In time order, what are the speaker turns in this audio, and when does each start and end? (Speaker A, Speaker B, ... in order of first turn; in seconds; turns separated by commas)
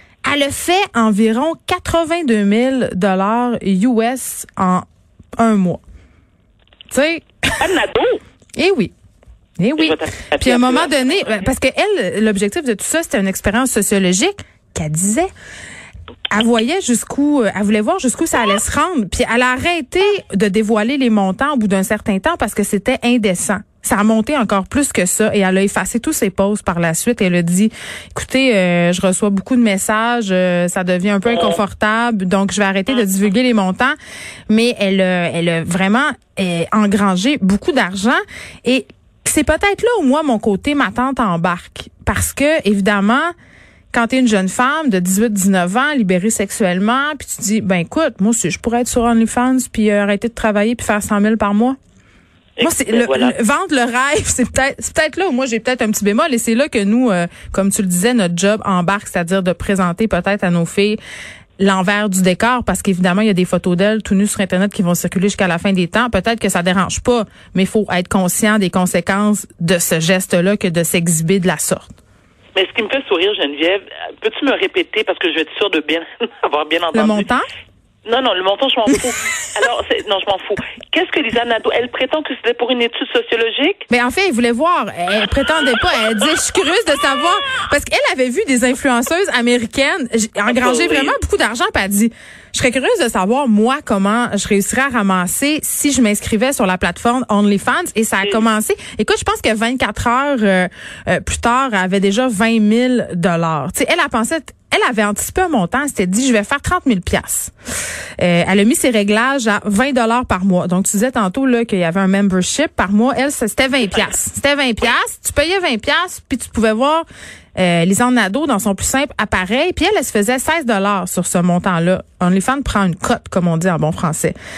Speaker A: 0.2-4.8, Speaker A: 5.4-5.8, Speaker A: 6.9-7.7, Speaker B: 7.6-8.2, Speaker A: 8.6-8.9, Speaker A: 9.6-15.3, Speaker B: 9.8-11.5, Speaker A: 16.3-34.0, Speaker B: 31.2-31.6, Speaker A: 34.5-43.3, Speaker A: 43.9-51.8, Speaker B: 52.6-53.4, Speaker A: 52.6-61.0, Speaker A: 61.6-71.9, Speaker B: 72.5-77.3, Speaker A: 76.9-77.4, Speaker B: 78.0-83.8, Speaker A: 83.9-107.5, Speaker B: 90.4-91.2, Speaker A: 108.2-117.0, Speaker B: 113.8-114.1, Speaker A: 117.5-124.3